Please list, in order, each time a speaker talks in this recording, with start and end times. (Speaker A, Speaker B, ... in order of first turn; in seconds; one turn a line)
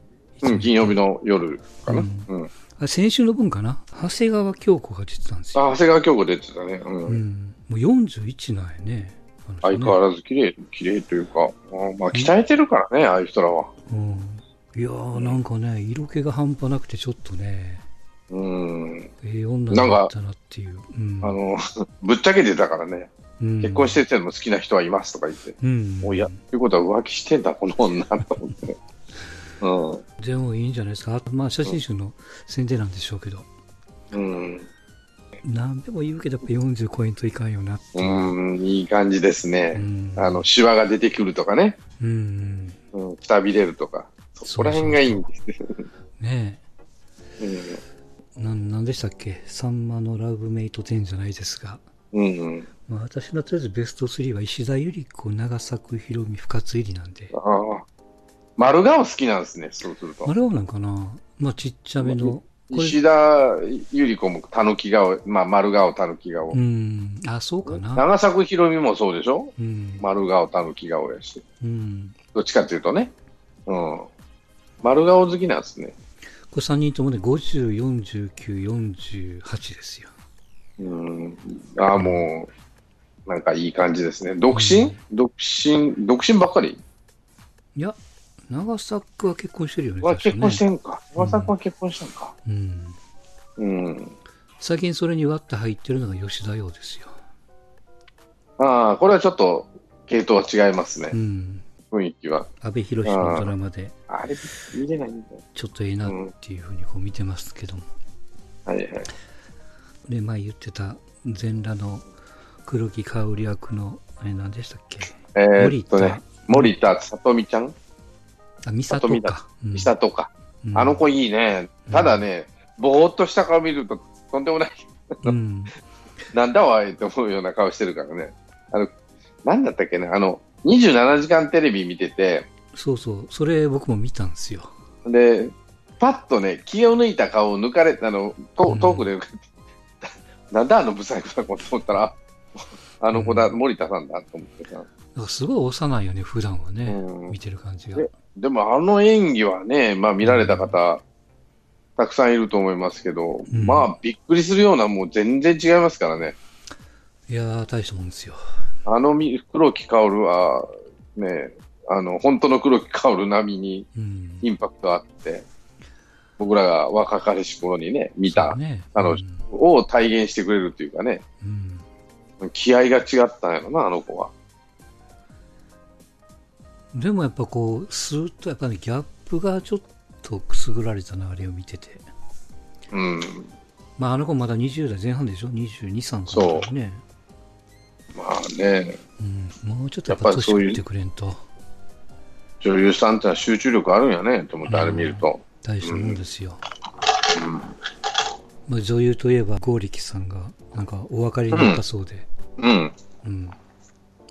Speaker A: 0.4-0.9
Speaker B: 0.4-2.5
Speaker A: 1.9-5.6
Speaker B: 5.5-7.2
Speaker A: 7.0-10.0
Speaker B: 9.6-13.7
Speaker A: 13.9-17.8
Speaker B: 18.3-19.1
Speaker A: 19.2-21.4
Speaker B: 19.7-20.1
Speaker B: 21.2-28.8
Speaker A: 23.4-24.0
Speaker A: 25.6-26.4
Speaker B: 29.6-30.0
Speaker A: 30.2-33.5
Speaker B: 34.1-34.7
Speaker A: 35.4-38.3
Speaker B: 37.9-41.8
Speaker A: 39.7-40.5
Speaker A: 42.0-42.8
Speaker B: 42.9-45.9
Speaker A: 44.4-45.3
Speaker A: 46.2-46.6
Speaker B: 47.4-47.8
Speaker A: 48.4-51.8
Speaker B: 52.1-52.7
Speaker A: 52.9-57.3
Speaker B: 57.3-57.9
Speaker B: 58.6-60.3
Speaker A: 60.2-63.0
Speaker B: 62.0-66.6
Speaker A: 66.5-68.0
Speaker B: 67.7-71.4
Speaker A: 69.6-70.0
Speaker A: 71.6-72.2
Speaker B: 72.3-73.1
Speaker B: 73.7-74.1
Speaker B: 74.8-75.9
Speaker A: 76.5-80.1
Speaker B: 80.8-82.5
Speaker A: 81.9-82.3
Speaker B: 83.3-86.8
Speaker A: 84.5-85.0
Speaker A: 87.7-90.6
Speaker B: 90.0-92.3
Speaker A: 91.2-91.5
Speaker A: 92.4-93.0
Speaker B: 93.6-94.1
Speaker A: 94.6-97.2
Speaker B: 98.6-101.1
Speaker A: 101.1-101.6
Speaker B: 101.9-102.5
Speaker A: 102.6-103.9
Speaker B: 103.0-103.5
Speaker B: 104.1-105.4
Speaker A: 105.5-107.9
Speaker B: 108.7-109.1
Speaker A: 110.1-112.0
Speaker A: 112.6-116.7
Speaker B: 115.3-117.7
Speaker A: 118.6-119.9
Speaker B: 118.9-125.3
Speaker A: 120.6-121.0
Speaker A: 121.9-122.2
Speaker A: 125.2-125.7
Speaker B: 126.3-128.9
Speaker B: 129.4-132.5
Speaker A: 132.7-134.7
Speaker B: 135.0-139.4
Speaker A: 138.7-139.1
Speaker B: 140.0-142.2
Speaker B: 143.0-144.9
Speaker A: 143.1-143.5
Speaker A: 145.1-148.1
Speaker B: 146.9-147.3
Speaker B: 148.0-151.0
Speaker A: 150.2-150.7
Speaker B: 152.0-156.4
Speaker A: 153.5-153.9
Speaker A: 157.3-158.4
Speaker B: 158.8-163.9
Speaker A: 163.9-164.5
Speaker B: 164.4-165.4
Speaker B: 166.4-171.2
Speaker A: 168.3-169.5
Speaker A: 171.4-171.8
Speaker B: 172.4-174.3
Speaker A: 176.9-182.0
Speaker B: 182.9-183.5
Speaker A: 184.0-187.0
Speaker B: 186.3-186.7
Speaker B: 188.1-189.0
Speaker A: 189.2-191.4
Speaker B: 190.1-190.8
Speaker B: 192.6-196.2
Speaker A: 194.7-196.6
Speaker B: 197.2-197.8
Speaker A: 198.7-202.3
Speaker B: 201.5-201.8
Speaker B: 202.6-202.9
Speaker A: 203.2-203.6